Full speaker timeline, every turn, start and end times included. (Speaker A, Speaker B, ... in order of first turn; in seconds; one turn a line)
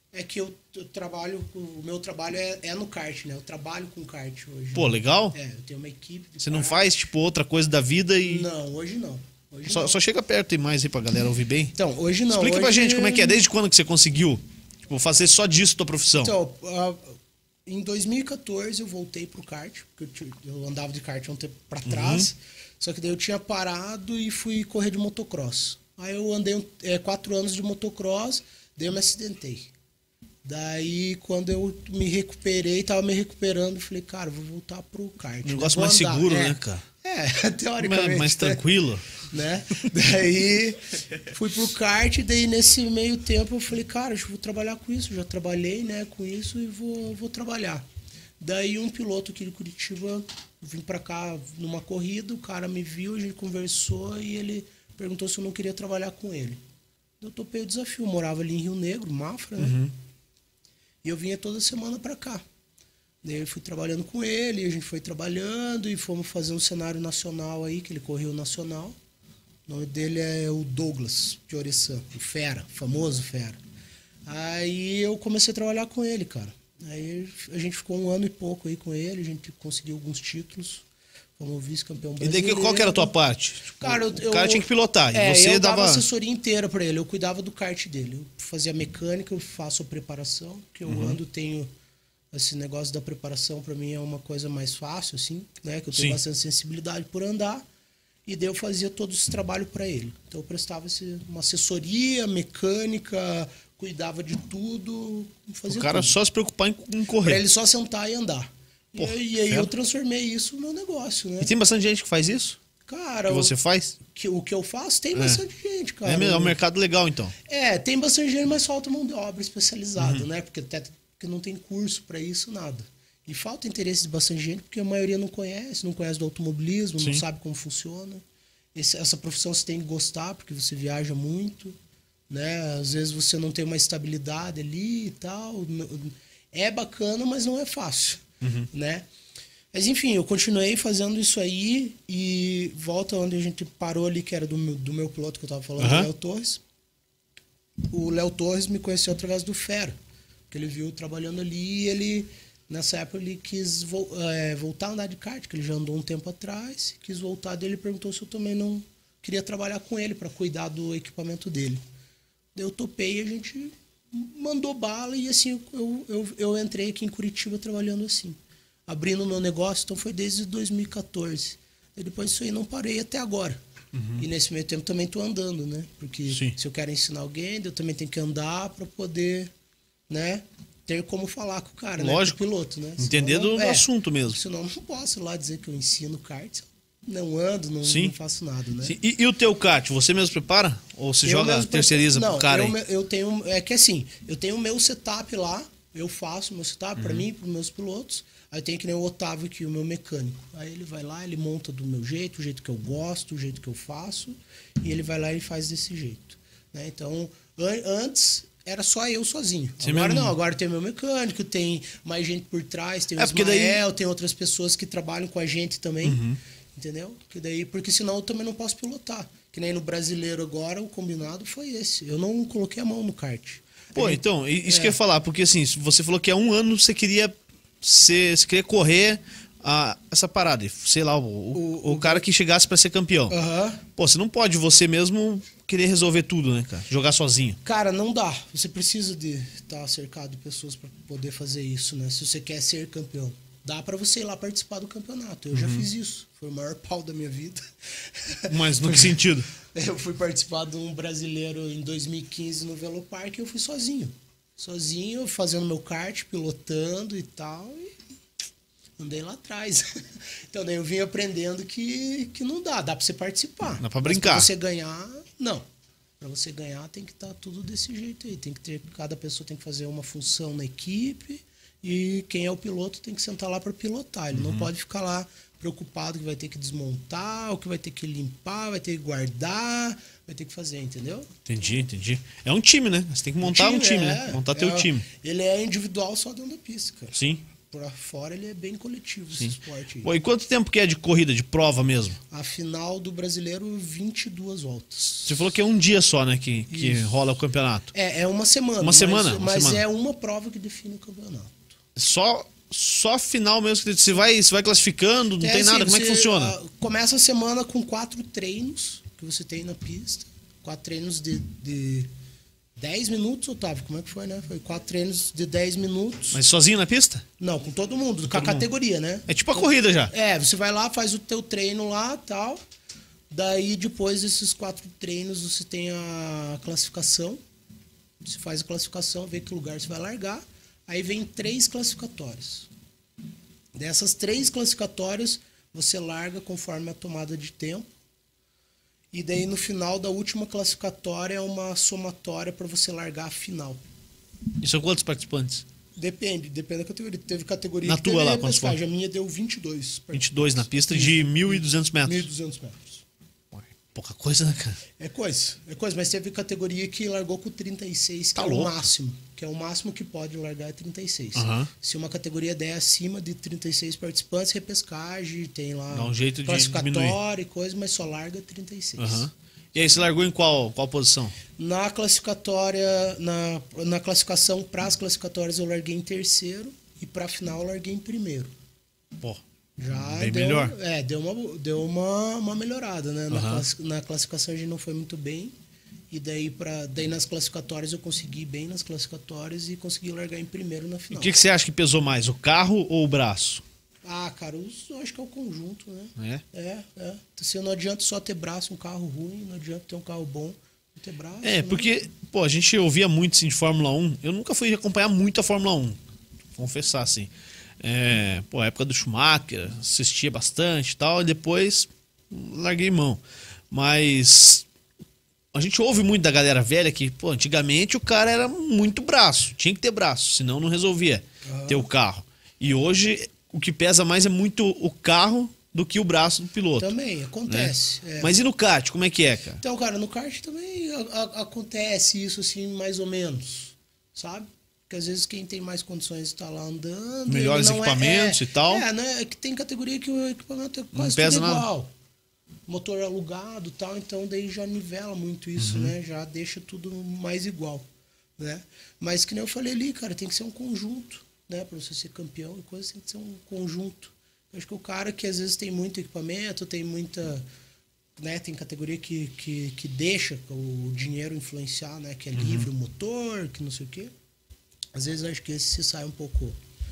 Speaker A: 0.1-6.9
Speaker B: 4.8-5.4
Speaker B: 6.4-8.5
Speaker A: 8.2-10.0
Speaker B: 9.7-11.7
Speaker A: 11.8-13.4
Speaker B: 12.3-16.4
Speaker A: 16.2-29.7
Speaker B: 21.9-22.3
Speaker A: 30.4-38.6
Speaker B: 35.4-36.9
Speaker B: 37.8-39.1
Speaker A: 39.2-47.9
Speaker A: 48.4-56.6
Speaker A: 57.2-59.9
Speaker B: 59.6-59.9
Speaker A: 61.0-62.4
Speaker A: 63.2-69.0
Speaker A: 69.7-73.6
Speaker A: 74.3-80.8
Speaker A: 81.4-83.2
Speaker B: 82.2-86.0
Speaker A: 83.7-91.7
Speaker B: 90.9-91.2
Speaker A: 92.3-97.7
Speaker B: 95.9-96.2
Speaker A: 98.3-106.2
Speaker B: 105.7-107.4
Speaker A: 107.2-111.5
Speaker B: 109.0-109.7
Speaker B: 111.4-112.6
Speaker A: 112.9-116.6
Speaker B: 113.3-114.0
Speaker B: 115.2-115.4
Speaker B: 116.0-117.3
Speaker A: 117.5-128.2
Speaker B: 120.0-120.3
Speaker A: 128.8-131.8
Speaker A: 132.3-139.1
Speaker B: 138.4-138.7
Speaker A: 139.7-146.6
Speaker B: 145.8-146.1
Speaker A: 147.9-150.0
Speaker A: 150.5-161.8
Speaker A: 162.6-173.6
Speaker B: 173.9-174.2
Speaker A: 174.2-179.5
Speaker B: 176.3-176.6
Speaker A: 180.1-189.0
Speaker B: 182.0-182.4
Speaker B: 183.0-184.4
Speaker B: 187.8-188.1
Speaker B: 188.8-192.8
Speaker A: 191.2-216.2
Speaker B: 197.0-197.3
Speaker B: 209.8-210.3
Speaker B: 213.2-213.8
Speaker B: 216.0-216.4
Speaker A: 216.8-225.0
Speaker B: 223.9-233.4
Speaker A: 231.5-232.2
Speaker A: 233.3-233.8
Speaker B: 234.0-237.6
Speaker A: 237.6-257.9
Speaker B: 245.5-245.9
Speaker B: 248.5-249.5
Speaker A: 259.0-259.9
Speaker A: 260.5-265.6
Speaker B: 263.8-264.5
Speaker A: 266.2-281.4
Speaker B: 274.3-274.7
Speaker B: 281.5-285.1
Speaker A: 283.4-290.1
Speaker B: 287.1-287.4
Speaker B: 289.4-292.2
Speaker A: 292.3-295.4
Speaker B: 295.3-297.9
Speaker A: 296.7-297.2
Speaker A: 297.9-301.8
Speaker B: 298.8-299.8
Speaker B: 302.0-306.6
Speaker A: 305.4-312.1
Speaker A: 312.8-316.4
Speaker B: 316.3-317.2
Speaker A: 317.4-322.6
Speaker B: 318.3-318.7
Speaker B: 319.3-320.1
Speaker A: 323.3-327.4
Speaker A: 328.2-332.7
Speaker A: 333.8-337.9
Speaker A: 339.1-343.8
Speaker B: 344.6-345.6
Speaker A: 346.0-353.0
Speaker B: 347.8-348.8
Speaker B: 350.1-352.3
Speaker B: 353.5-354.8
Speaker A: 355.0-369.3
Speaker B: 358.4-358.8
Speaker B: 361.4-361.7
Speaker B: 365.9-367.2
Speaker B: 369.0-371.4
Speaker A: 371.6-378.5
Speaker A: 379.8-385.5
Speaker B: 379.9-380.8
Speaker B: 383.3-383.6
Speaker A: 386.1-391.4
Speaker B: 391.1-393.6
Speaker A: 394.1-401.9
Speaker B: 396.2-396.4
Speaker B: 401.4-406.0
Speaker B: 406.6-414.7
Speaker B: 415.5-426.9
Speaker A: 421.4-421.9
Speaker A: 426.8-428.4
Speaker B: 427.5-429.6
Speaker A: 429.6-441.9
Speaker B: 437.3-438.9
Speaker B: 440.9-441.7
Speaker A: 442.7-447.9
Speaker B: 445.6-445.9
Speaker A: 448.4-457.5
Speaker A: 458.2-464.1
Speaker B: 462.4-462.7
Speaker A: 464.9-466.6